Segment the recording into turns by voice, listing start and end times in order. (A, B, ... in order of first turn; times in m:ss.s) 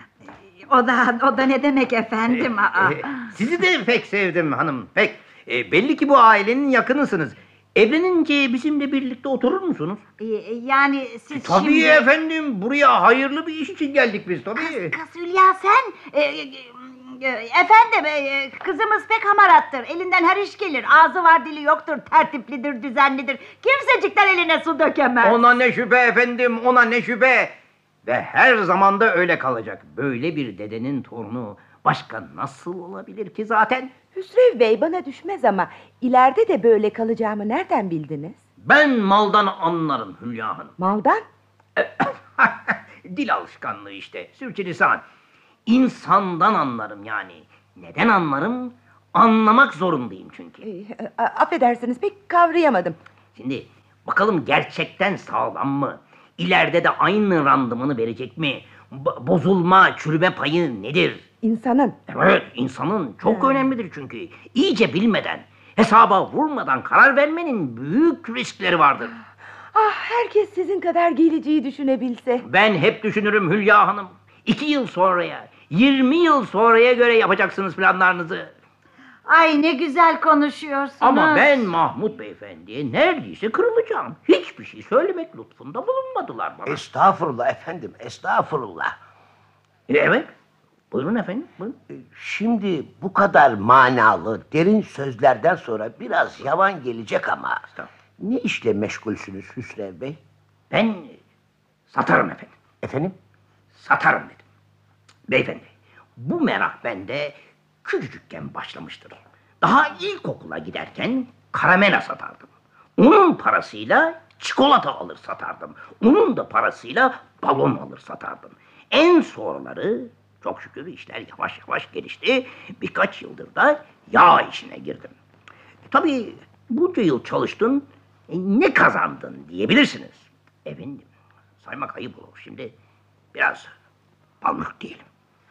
0:00.7-0:03.3 A
0:02.3-0:10.0 B
0:10.2-0:12.0 A
0:11.3-0:14.9 B
0:14.6-0:25.4 A
0:25.2-0:27.5 B
0:28.0-0:33.9 B
0:34.1-0:38.4 C
0:38.6-0:40.8 B
0:40.8-0:41.2 C
0:41.8-0:45.0 B
0:45.7-0:50.6 B
0:50.6-0:53.0 C
0:53.4-1:01.2 B
1:01.4-1:02.0 C
1:02.1-1:09.1 B
1:09.7-1:12.4 C
1:12.4-1:18.5 B
1:19.2-1:21.7 A
1:21.0-1:26.8 B
1:26.6-1:28.9 D
1:29.9-1:30.3 B
1:30.9-1:31.8 B
1:31.9-1:37.6 D
1:38.2-1:40.2 D
1:40.7-1:41.2 B
1:41.9-1:42.5 B
1:42.8-1:43.2 D
1:43.7-1:44.4 B
1:45.3-2:05.1 B
2:05.9-2:11.1 B
2:11.6-2:12.7 B
2:13.3-2:13.7 B
2:14.4-2:15.0 B